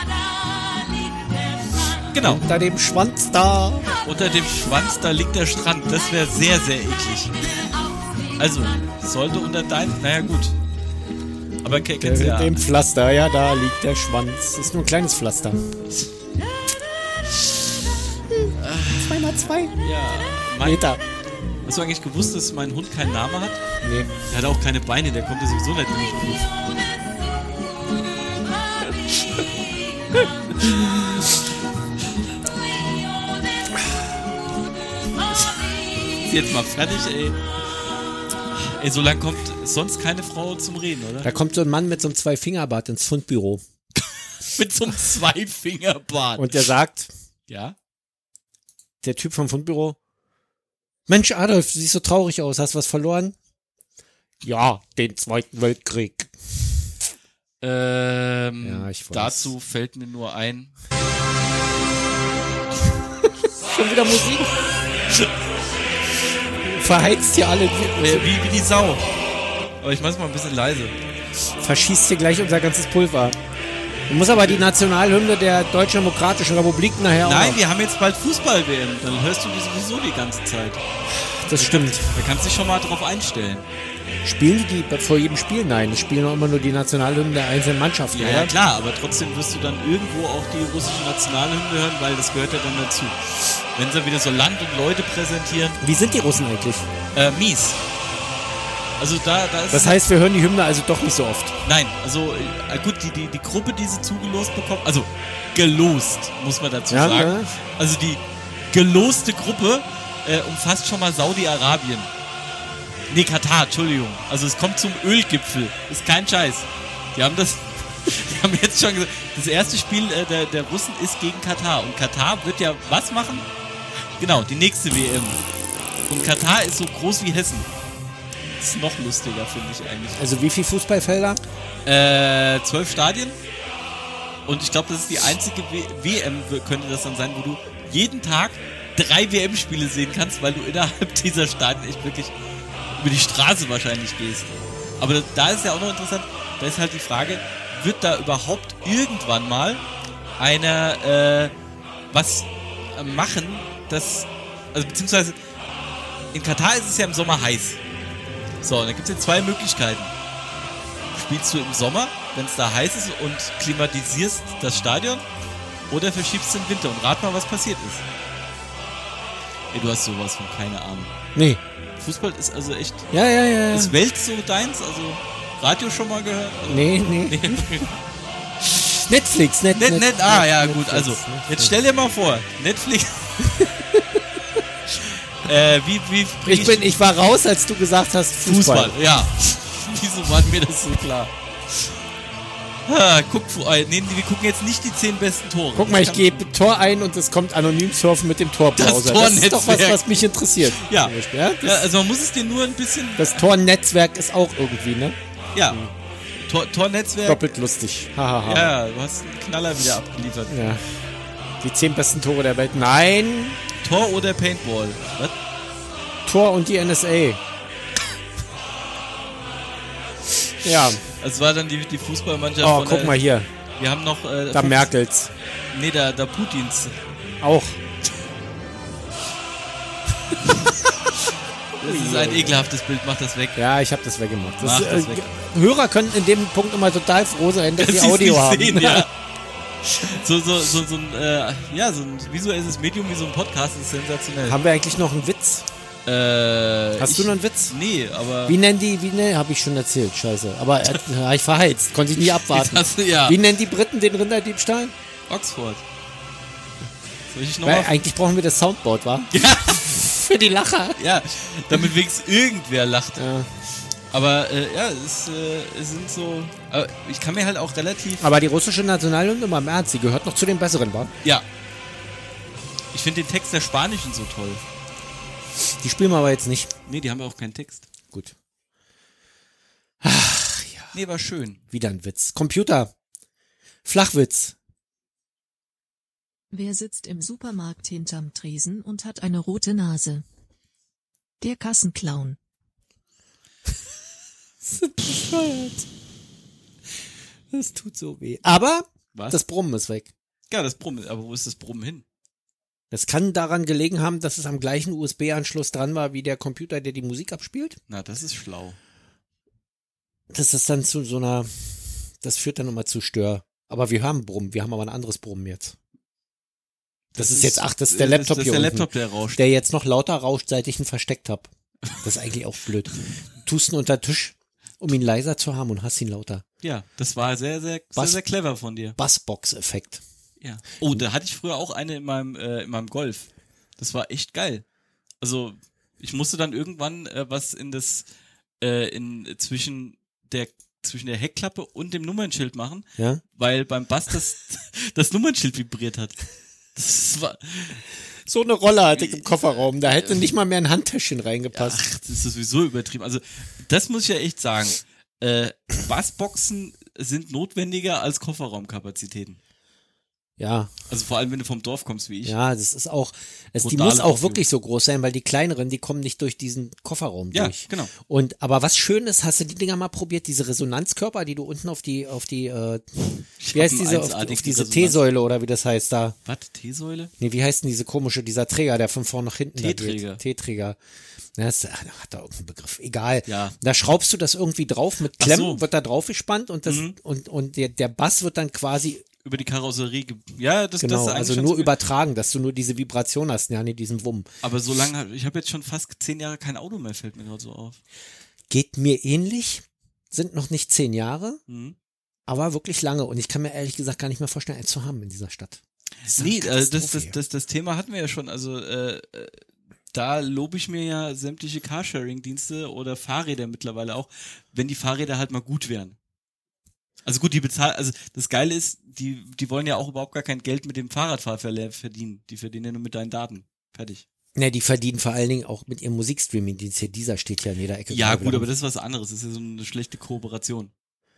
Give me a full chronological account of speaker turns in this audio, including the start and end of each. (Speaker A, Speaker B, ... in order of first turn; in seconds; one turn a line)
Speaker A: 2.1-2.4
Speaker B: 2.2-3.9
Speaker A: 4.0-7.3
Speaker A: 8.4-10.5
Speaker A: 11.6-12.7
Speaker B: 12.0-15.6
Speaker B: 18.3-19.8
Speaker A: 18.6-19.3
Speaker A: 19.8-20.9
Speaker B: 20.6-21.0
Speaker A: 21.6-23.6
Speaker B: 23.8-24.1
Speaker A: 24.3-26.5
Speaker A: 36.2-37.4
Speaker A: 38.5-41.3
Speaker B: 41.2-43.6
Speaker A: 44.4-46.6
Speaker B: 46.4-47.1
Speaker A: 47.5-47.8
Speaker B: 49.0-50.0
Speaker B: 51.1-53.4
Speaker B: 54.4-56.3
Speaker A: 57.6-60.7
Speaker B: 58.6-59.5
Speaker B: 63.2-64.6
Speaker B: 66.6-68.3
Speaker A: 68.0-69.0
Speaker A: 69.8-70.9
Speaker B: 71.6-73.4
Speaker B: 74.1-77.6
Speaker A: 74.3-74.6
Speaker A: 77.2-80.8
Speaker B: 81.1-82.1
Speaker A: 81.5-83.7
Speaker B: 84.2-88.5
Speaker A: 88.1-95.8
Speaker B: 95.8-96.9
Speaker A: 97.1-97.8
Speaker A: 99.0-100.0
Speaker B: 99.7-101.5
Speaker A: 101.6-112.1
Speaker B: 106.9-107.5
Speaker A: 113.1-123.5
Speaker A: 124.2-125.4
Speaker A: 126.1-127.7
Speaker A: 128.6-130.3
Speaker B: 130.2-131.4
Speaker A: 131.8-133.4
Speaker A: 134.5-142.3
Speaker A: 142.9-149.8
Speaker A: 150.4-151.5
Speaker A: 152.1-155.3
Speaker A: 156.3-157.8
Speaker A: 158.6-160.1
Speaker A: 161.1-165.2
Speaker A: 165.9-168.0
Speaker A: 169.7-171.1
Speaker B: 171.3-171.6
Speaker A: 172.0-173.1
Speaker B: 173.1-173.9
Speaker A: 173.7-177.9
Speaker B: 176.7-177.8
Speaker B: 179.1-181.7
Speaker A: 179.8-183.4
Speaker B: 183.6-184.2
Speaker A: 185.0-186.9
Speaker B: 186.4-189.0
Speaker A: 188.4-191.9
Speaker A: 192.8-196.5
Speaker B: 195.7-201.9
Speaker A: 198.7-200.0
Speaker A: 200.7-203.3
Speaker B: 203.2-205.2
Speaker A: 205.5-205.8
Speaker A: 206.3-207.4
Speaker B: 207.2-208.7
Speaker A: 208.4-210.5
Speaker B: 210.5-210.8
Speaker B: 211.6-213.6
Speaker A: 213.8-215.3
Speaker B: 216.2-217.4
Speaker B: 220.6-221.0
Speaker A: 221.2-223.2
Speaker B: 222.6-223.5
Speaker A: 223.8-224.9
Speaker B: 224.5-225.3
Speaker A: 225.7-226.9
Speaker B: 227.4-227.8
Speaker A: 231.8-233.6
Speaker B: 231.8-232.7
Speaker B: 233.6-239.1
Speaker A: 234.6-235.3
Speaker A: 237.8-239.1
Speaker A: 239.8-244.6
Speaker B: 244.4-245.7
Speaker A: 246.1-248.6
Speaker B: 247.0-247.7
Speaker B: 248.4-254.9
Speaker A: 252.1-253.4
Speaker A: 255.3-255.8
Speaker A: 257.3-257.9
Speaker B: 257.6-261.0
Speaker A: 259.3-260.0
Speaker A: 261.0-263.2
Speaker B: 263.2-263.5
Speaker A: 264.1-268.3
Speaker B: 268.2-271.1
Speaker A: 272.9-274.6
Speaker B: 275.8-276.7
Speaker A: 276.9-277.9
Speaker B: 280.0-280.9
Speaker A: 280.9-281.6
Speaker B: 281.7-282.9
Speaker B: 283.8-284.6
Speaker C: 286.5-290.2
Speaker C: 291.4-292.4
Speaker B: 294.6-295.9
Speaker B: 297.5-300.1
Speaker A: 299.1-299.4
Speaker A: 300.5-302.0
Speaker B: 302.9-307.8
Speaker A: 307.9-308.8
Speaker B: 310.3-315.8
Speaker A: 317.1-319.4
Speaker B: 317.1-326.4
Speaker A: 326.6-329.0
Speaker B: 327.9-328.2
Speaker B: 329.0-330.0
Speaker A: 330.4-334.6
Speaker A: 335.2-338.1
Speaker A: 338.6-346.2
Speaker A: 346.7-347.8
Speaker B: 348.2-351.8
Speaker A: 348.9-350.3
Speaker A: 351.5-359.4
Speaker B: 360.4-360.7
Speaker A: 360.9-362.4
Speaker B: 362.2-376.2
Speaker A: 363.6-364.4
Speaker A: 367.3-367.9
Speaker A: 373.4-375.0
Speaker A: 376.2-377.1
Speaker B: 377.2-380.8
Speaker A: 379.6-380.2
Speaker B: 381.4-389.0
Speaker A: 383.3-383.5
Speaker A: 385.2-385.6
Speaker A: 386.6-386.9
Speaker A: 389.2-391.7
Speaker B: 390.8-394.3
Speaker A: 394.4-397.8
Speaker B: 398.5-401.4
Speaker A: 401.5-401.8
Speaker B: 402.3-407.1
Speaker A: 406.0-415.9
Speaker A: 417.0-424.0
Speaker B: 424.3-428.5
Speaker A: 427.9-430.7